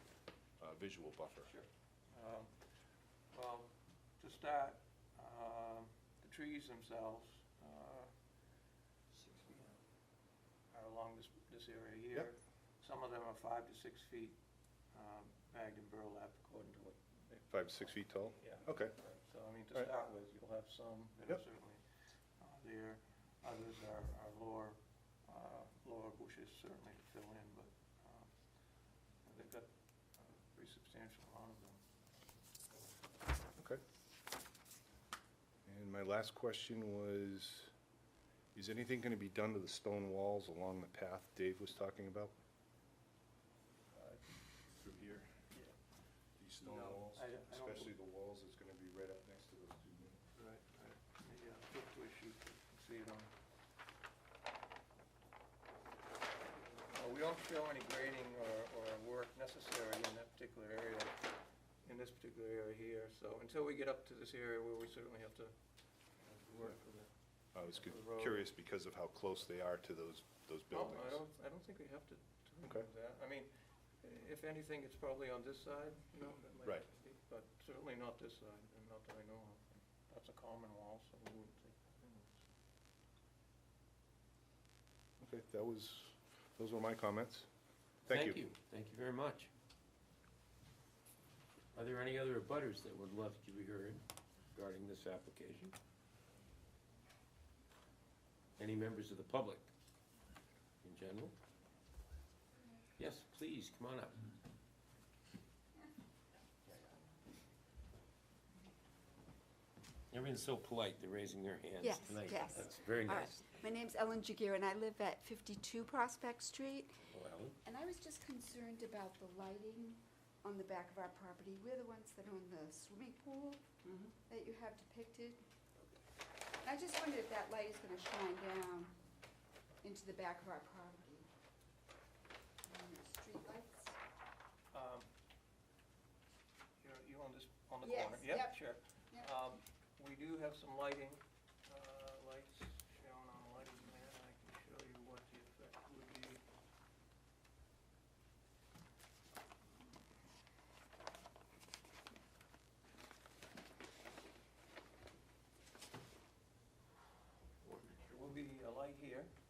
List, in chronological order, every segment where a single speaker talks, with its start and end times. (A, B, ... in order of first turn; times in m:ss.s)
0:00.6-0:01.5 A
0:01.5-0:02.5 B
0:03.3-0:08.1 B
0:09.1-0:09.8 B
0:10.7-0:14.4 B
0:14.9-0:21.8 B
0:17.5-0:19.0 A
0:22.4-0:28.3 B
0:29.2-0:31.8 B
0:33.6-0:33.8 A
0:35.7-0:37.7 A
0:38.6-0:42.4 A
0:44.7-0:45.4 A
0:46.4-0:50.2 A
0:46.6-0:47.9 B
0:50.4-0:53.3 B
0:56.7-1:01.2 B
1:01.8-1:05.6 B
1:06.2-1:08.5 B
1:07.6-1:11.2 A
1:10.7-1:22.5 B
1:25.2-1:27.5 A
1:28.1-1:28.4 A
1:28.1-1:29.5 C
1:31.7-1:35.8 C
1:38.6-1:39.7 C
1:40.8-1:41.4 C
1:43.0-1:44.3 C
1:50.1-1:53.5 C
1:51.8-1:57.0 D
1:57.1-1:57.6 C
1:57.6-2:05.4 D
2:06.6-2:09.0 D
2:09.8-2:11.3 D
2:12.6-2:14.0 D
2:14.7-2:15.1 B
2:16.8-2:26.4 B
2:17.8-2:19.3 D
2:37.7-2:39.3 B